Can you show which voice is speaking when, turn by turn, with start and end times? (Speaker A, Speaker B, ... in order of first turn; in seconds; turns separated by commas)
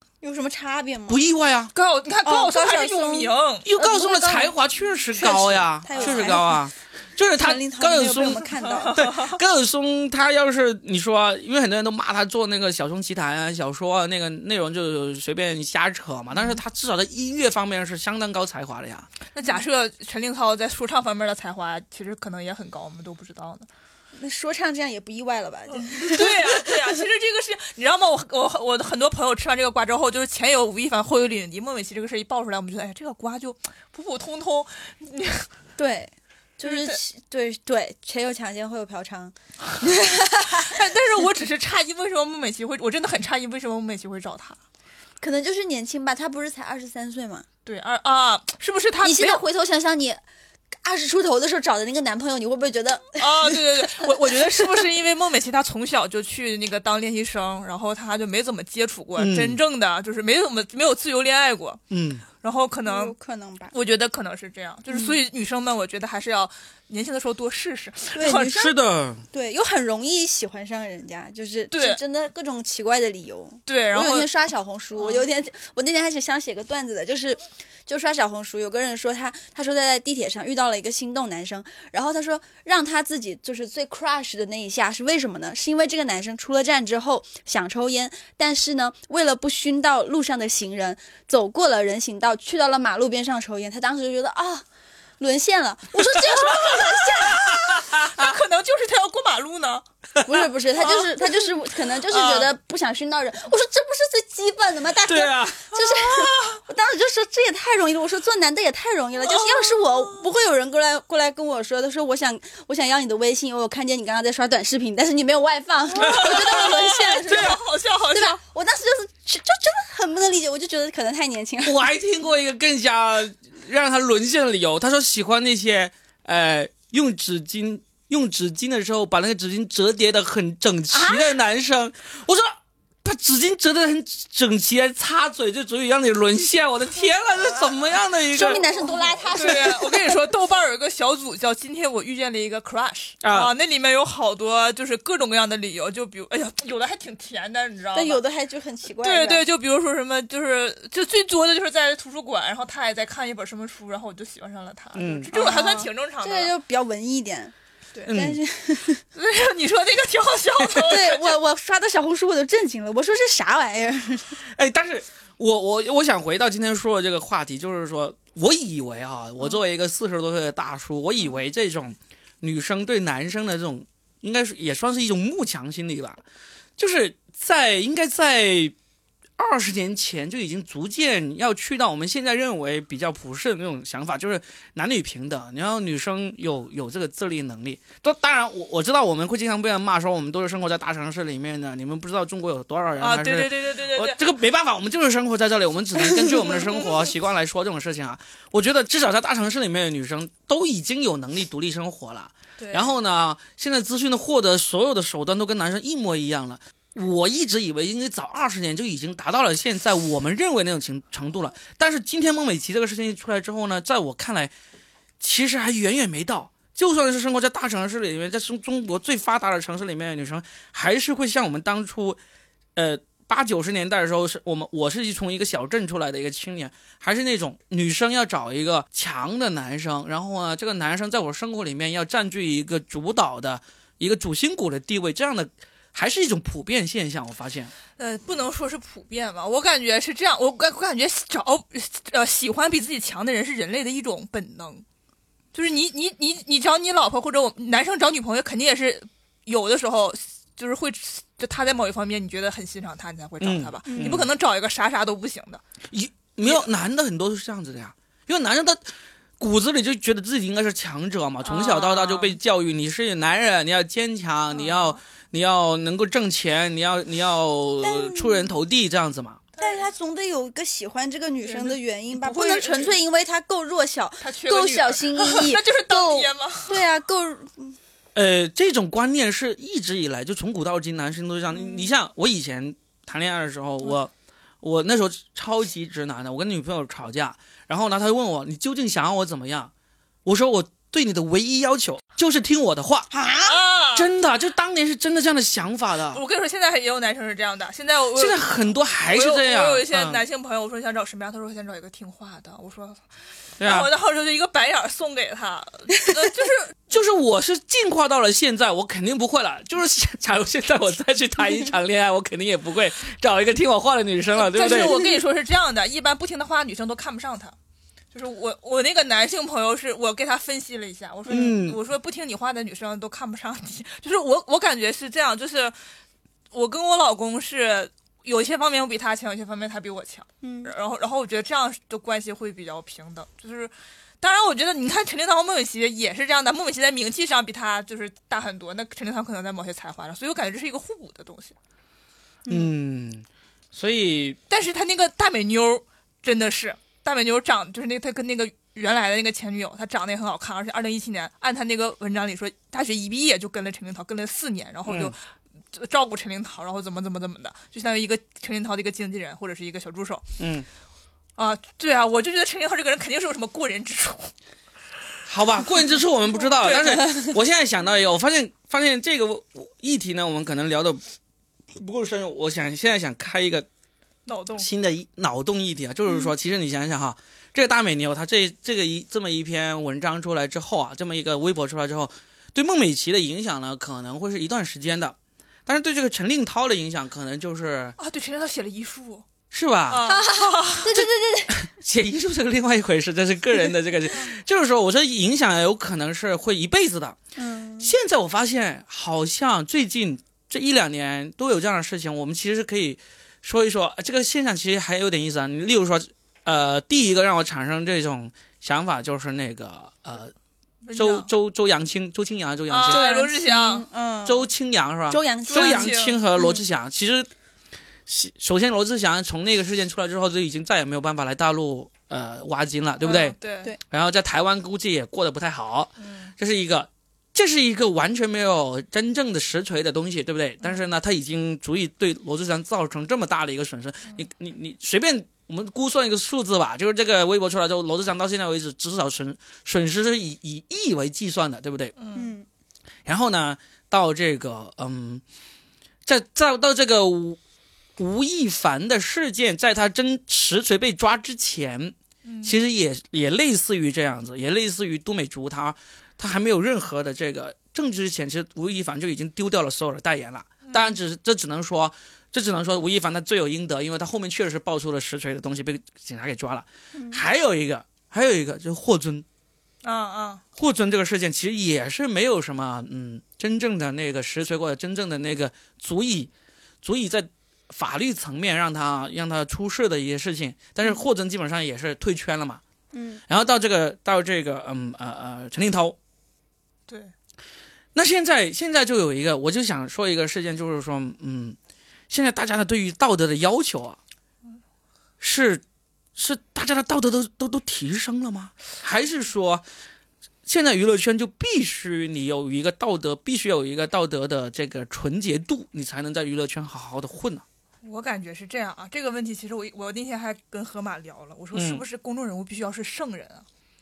Speaker A: 0.2-1.2, Speaker B: 1.1-1.7, Speaker C: 1.7-3.7, Speaker A: 2.2-4.5, Speaker B: 3.6-19.1, Speaker A: 5.2-6.6, Speaker C: 6.0-6.4, Speaker A: 7.4-9.0, Speaker C: 8.6-9.3, Speaker C: 19.3-23.7, Speaker A: 24.2-26.8, Speaker C: 25.8-35.5, Speaker A: 35.8-40.7, Speaker C: 36.6-37.0, Speaker C: 40.5-44.6, Speaker A: 45.2-47.5, Speaker C: 47.7-49.4, Speaker A: 49.0-50.2, Speaker A: 50.7-53.6, Speaker C: 53.2-61.8, Speaker B: 59.2-59.6, Speaker B: 61.9-62.2, Speaker C: 62.4-63.1, Speaker A: 62.9-63.7, Speaker C: 63.7-68.5, Speaker A: 64.9-65.2, Speaker A: 68.1-68.8, Speaker B: 68.5-69.2, Speaker A: 69.3-94.7, Speaker C: 71.7-72.0, Speaker C: 73.7-74.3, Speaker C: 75.0-75.2, Speaker A: 95.2-97.8, Speaker C: 96.6-99.8, Speaker B: 97.9-98.3, Speaker A: 100.2-121.8, Speaker C: 100.8-101.1, Speaker C: 102.0-102.5, Speaker B: 105.0-105.7, Speaker C: 106.0-106.6, Speaker C: 109.2-109.8, Speaker C: 116.0-118.4, Speaker B: 116.1-116.5, Speaker B: 121.6-132.5, Speaker A: 130.9-131.4, Speaker B: 133.0-138.6, Speaker A: 138.3-140.1, Speaker C: 139.3-148.2, Speaker B: 143.2-143.5, Speaker A: 147.9-149.5, Speaker C: 149.0-156.5, Speaker B: 154.9-155.3, Speaker A: 155.3-157.5, Speaker B: 158.1-158.4, Speaker A: 158.1-159.0, Speaker C: 159.1-161.4, Speaker A: 160.8-164.4, Speaker B: 164.5-176.2, Speaker B: 176.8-178.8, Speaker B: 179.4-214.5, Speaker C: 193.0-194.2, Speaker C: 202.6-202.9, Speaker B: 215.2-222.2, Speaker B: 222.8-237.7, Speaker C: 238.0-244.8, Speaker C: 245.5-255.6, Speaker B: 253.4-254.3, Speaker A: 253.9-254.2, Speaker B: 255.9-258.8, Speaker C: 256.4-256.7, Speaker B: 259.4-269.4, Speaker C: 261.4-262.4, Speaker C: 264.5-265.0, Speaker A: 267.8-268.5, Speaker C: 269.6-269.8, Speaker A: 269.6-277.8, Speaker C: 271.4-273.0, Speaker C: 274.2-276.8, Speaker B: 278.1-284.1, Speaker A: 281.5-281.9, Speaker B: 284.6-289.7, Speaker B: 290.2-293.1, Speaker A: 293.1-293.6, Speaker C: 293.4-294.1, Speaker B: 293.9-296.2, Speaker C: 296.1-298.5, Speaker B: 298.2-300.2, Speaker C: 299.1-303.0, Speaker B: 303.6-303.9, Speaker C: 303.6-306.7, Speaker B: 306.9-315.0, Speaker C: 314.4-317.6, Speaker A: 314.6-315.1, Speaker C: 318.1-325.8, Speaker B: 321.3-321.8, Speaker C: 326.5-341.6, Speaker A: 330.4-330.7, Speaker B: 342.5-344.4, Speaker C: 344.5-355.2, Speaker B: 354.9-355.1, Speaker C: 355.7-360.2, Speaker B: 360.4-360.7, Speaker C: 361.4-364.3, Speaker B: 365.3-371.0, Speaker C: 366.6-367.0, Speaker B: 371.8-373.7, Speaker C: 374.3-374.7, Speaker B: 374.6-388.0, Speaker C: 388.0-389.3, Speaker B: 389.5-390.1, Speaker C: 389.9-390.9, Speaker A: 390.1-391.7, Speaker B: 390.9-397.2, Speaker A: 397.4-397.9, Speaker B: 397.8-410.3, Speaker C: 410.9-411.3, Speaker B: 410.9-413.0, Speaker C: 412.7-413.9, Speaker A: 412.9-414.5, Speaker B: 414.2-417.3, Speaker A: 415.1-416.6, Speaker C: 415.5-416.2, Speaker B: 418.1-423.4, Speaker C: 423.0-423.7, Speaker B: 423.9-441.9, Speaker C: 426.0-426.3, Speaker C: 442.0-442.3, Speaker A: 442.1-442.5, Speaker B: 443.1-445.2, Speaker B: 446.1-447.4, Speaker B: 448.0-469.2, Speaker C: 452.2-452.6, Speaker C: 460.7-460.9, Speaker A: 466.9-467.2, Speaker C: 469.8-470.4, Speaker B: 470.6-476.3, Speaker B: 476.8-482.6, Speaker A: 482.9-483.2, Speaker B: 483.3-486.0, Speaker C: 486.9-487.1, Speaker B: 487.9-491.6, Speaker B: 492.1-494.0, Speaker B: 495.2-495.6, Speaker B: 496.2-499.6, Speaker B: 500.5-507.4, Speaker C: 507.8-513.5, Speaker B: 511.5-511.8